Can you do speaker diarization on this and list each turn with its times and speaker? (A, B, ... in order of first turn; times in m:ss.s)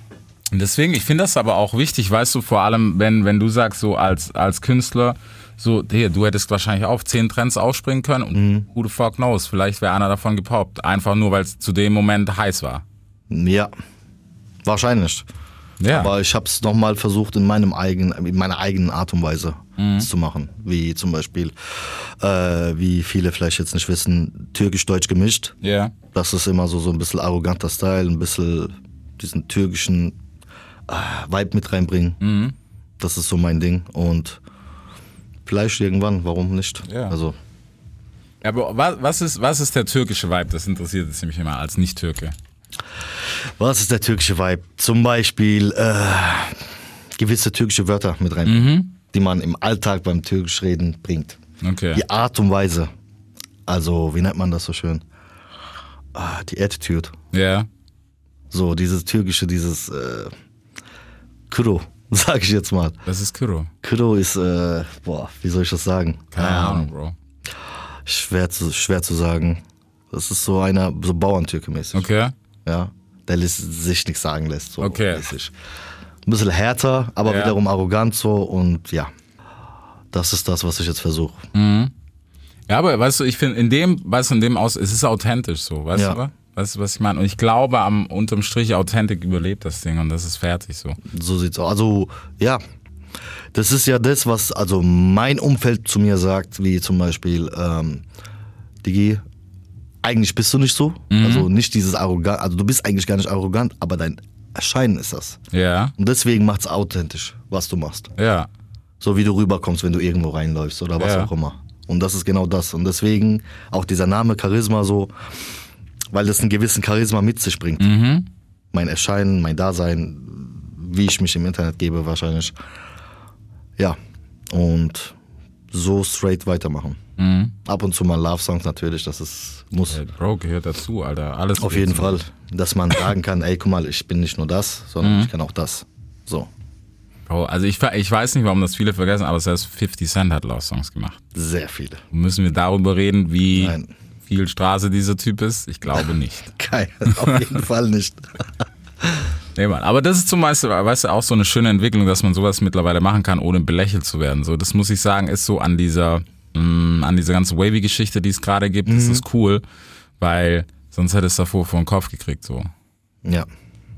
0:00.5-0:12.8 A
0:08.3-0:08.7 B
0:13.3-0:13.7 B
0:14.6-0:15.3 B
0:15.8-0:16.1 A
0:15.9-0:25.6 B
0:19.8-0:20.1 A
0:25.6-0:25.9 A
0:26.1-0:30.2 B
0:30.9-0:32.2 B
0:32.2-0:32.6 A
0:33.0-0:34.4 B
0:35.5-0:37.4 B
0:36.9-0:37.2 A
0:38.4-0:42.4 A
0:43.6-0:51.4 B
0:48.4-0:48.9 A
0:51.6-0:52.0 A
0:51.9-0:52.9 B
0:53.7-0:55.0 B
0:56.1-0:57.1 B
0:57.3-0:57.7 A
0:58.5-1:00.3 B
1:01.5-1:03.0 B
1:03.1-1:03.7 A
1:03.8-1:06.9 B
1:06.3-1:07.2 A
1:08.0-1:12.1 B
1:11.9-1:12.3 A
1:12.6-1:15.5 B
1:14.8-1:15.3 A
1:16.3-1:19.1 B
1:17.2-1:17.6 A
1:20.1-1:21.4 B
1:21.5-1:21.9 A
1:22.7-1:31.0 A
1:31.1-1:32.6 B
1:33.5-1:38.0 B
1:38.8-1:39.2 B
1:40.0-1:45.4 B
1:41.1-1:41.5 A
1:45.5-1:45.9 A
1:46.0-1:48.1 B
1:48.2-1:48.5 A
1:49.0-1:55.1 B
1:51.0-1:51.3 A
1:56.1-1:57.9 B
1:57.8-1:58.3 A
1:58.7-2:02.6 B
2:04.5-2:05.2 B
2:05.7-2:07.0 B
2:07.2-2:07.6 A
2:07.6-2:10.0 B
2:09.9-2:12.2 A
2:11.6-2:16.5 B
2:15.0-2:15.3 A
2:17.3-2:21.2 A
2:21.3-2:22.0 B
2:22.1-2:26.5 A
2:23.5-2:23.9 B
2:26.5-2:28.2 B
2:27.1-2:27.5 A
2:29.6-2:39.6 A
2:38.9-2:39.2 B
2:40.2-2:42.7 A